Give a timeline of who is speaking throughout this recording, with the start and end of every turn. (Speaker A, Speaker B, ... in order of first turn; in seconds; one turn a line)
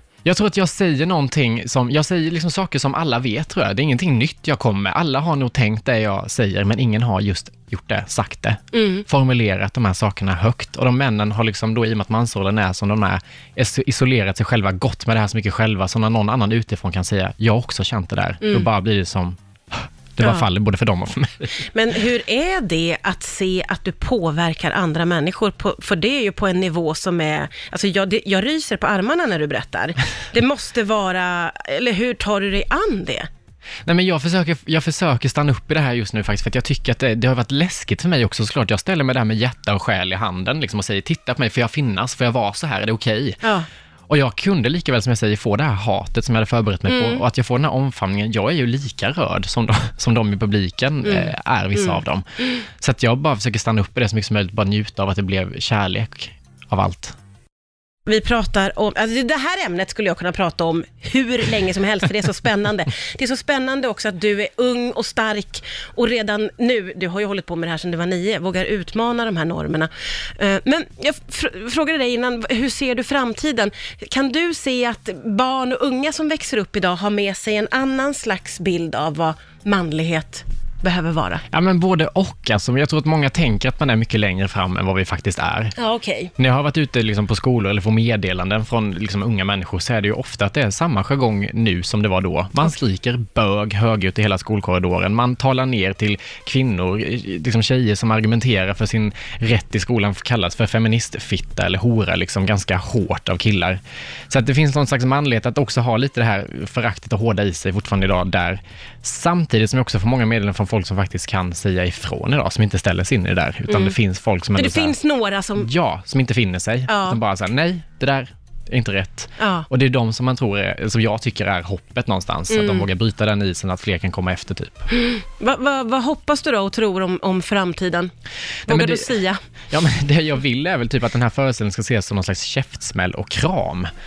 Speaker A: 0.2-21.5
Speaker B: 8.7-9.0
Speaker B: 18.4-18.7
Speaker B: 20.2-20.5
Speaker B: 21.7-33.3
Speaker A: 33.9-43.4
Speaker B: 43.4-43.7
Speaker A: 44.1-57.1
Speaker B: 46.9-47.2
Speaker B: 51.0-52.5
Speaker B: 58.0-81.4
Speaker A: 81.5-85.7
Speaker B: 85.8-86.3
Speaker A: 86.4-115.0
Speaker B: 113.7-114.0
Speaker B: 114.5-115.7
Speaker A: 115.6-124.9
Speaker B: 116.9-117.2
Speaker B: 119.4-119.7
Speaker B: 122.5-122.8
Speaker B: 124.9-128.1
Speaker B: 128.7-129.4
Speaker A: 128.7-129.1
Speaker A: 129.7-133.9